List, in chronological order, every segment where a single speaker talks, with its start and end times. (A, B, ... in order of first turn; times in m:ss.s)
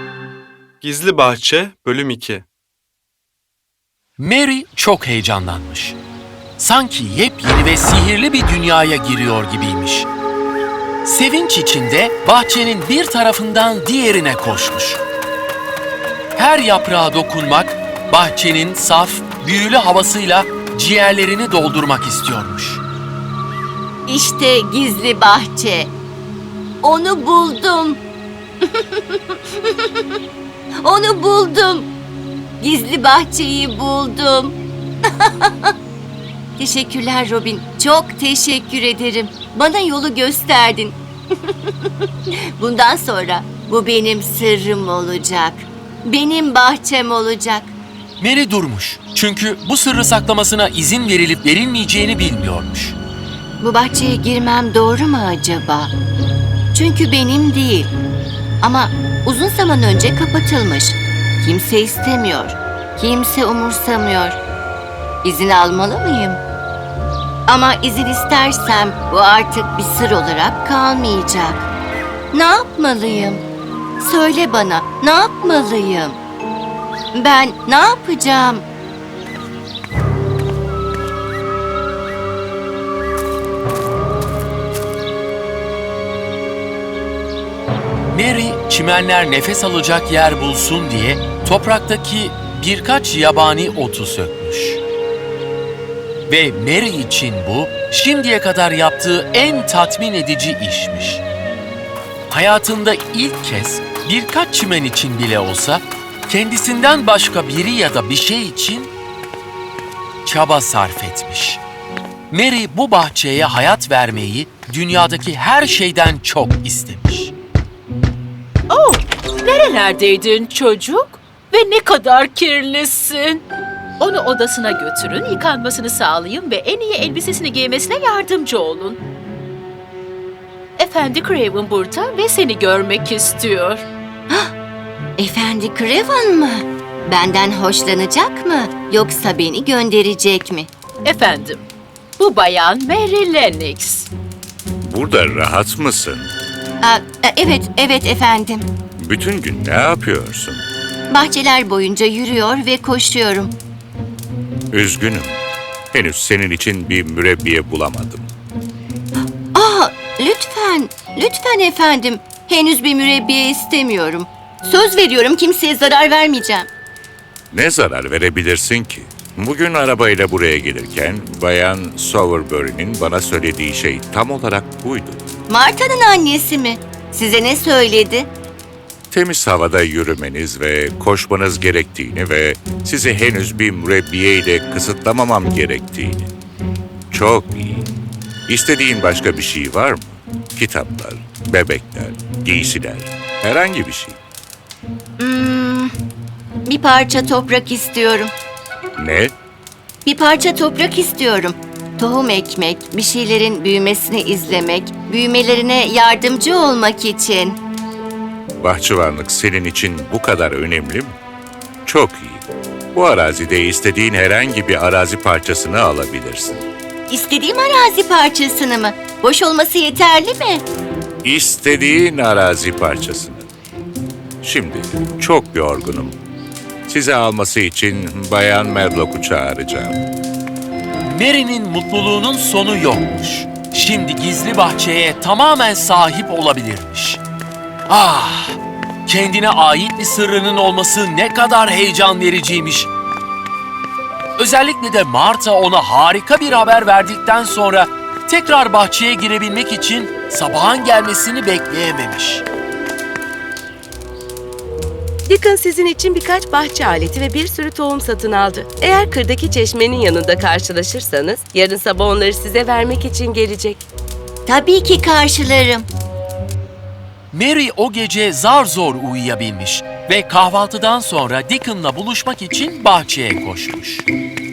0:04.2-0:06.0 A
0:06.6-0:10.1 A
0:11.0-0:15.0 A
0:16.3-0:22.8 A
0:24.1-0:25.9 B
0:26.8-0:28.0 B
0:29.0-0:29.7 B
0:30.8-0:31.9 B
0:32.6-0:34.6 B
0:35.2-0:35.7 B
0:36.6-0:41.0 B
0:42.6-0:47.7 B
0:48.2-0:53.0 A
0:53.6-0:55.9 B
0:56.7-0:57.9 B
0:58.6-1:04.4 B
1:05.2-1:06.4 B
1:07.5-1:11.7 B
1:12.3-1:13.4 B
1:14.0-1:16.2 B
1:17.1-1:18.6 B
1:28.1-1:34.8 A
1:36.3-1:41.2 A
1:42.3-1:48.9 A
1:50.2-1:51.6 A
1:52.3-1:57.3 A
1:58.7-2:03.4 C
2:04.0-2:09.0 C
2:10.8-2:13.8 C
2:15.2-2:20.7 B
2:21.0-2:21.6 C
2:22.2-2:24.1 C
2:24.8-2:26.3 D
2:26.8-2:28.6 B
2:29.0-2:30.6 D
2:31.1-2:33.5 B
2:34.7-2:38.3 D
2:39.5-2:46.7 B
2:47.5-2:55.2 D
2:55.5-2:58.3 B
2:59.1-3:06.3 D
3:07.1-3:07.9 D
3:08.5-3:14.2 D
3:15.2-3:15.9 B
3:16.7-3:18.3 B
3:19.0-3:19.3 D
3:20.0-3:27.6 B
3:28.6-3:31.2 D
3:31.8-3:36.7 D
3:37.1-3:40.6 B
3:41.2-3:43.5 D
3:44.4-3:46.2 D
3:46.9-3:50.0 D
3:51.0-3:57.2 A
3:57.9-4:02.9 A
4:04.4-4:12.4 A
4:15.3-4:23.8 E
4:24.5-4:25.9 B
4:27.3-4:34.1 A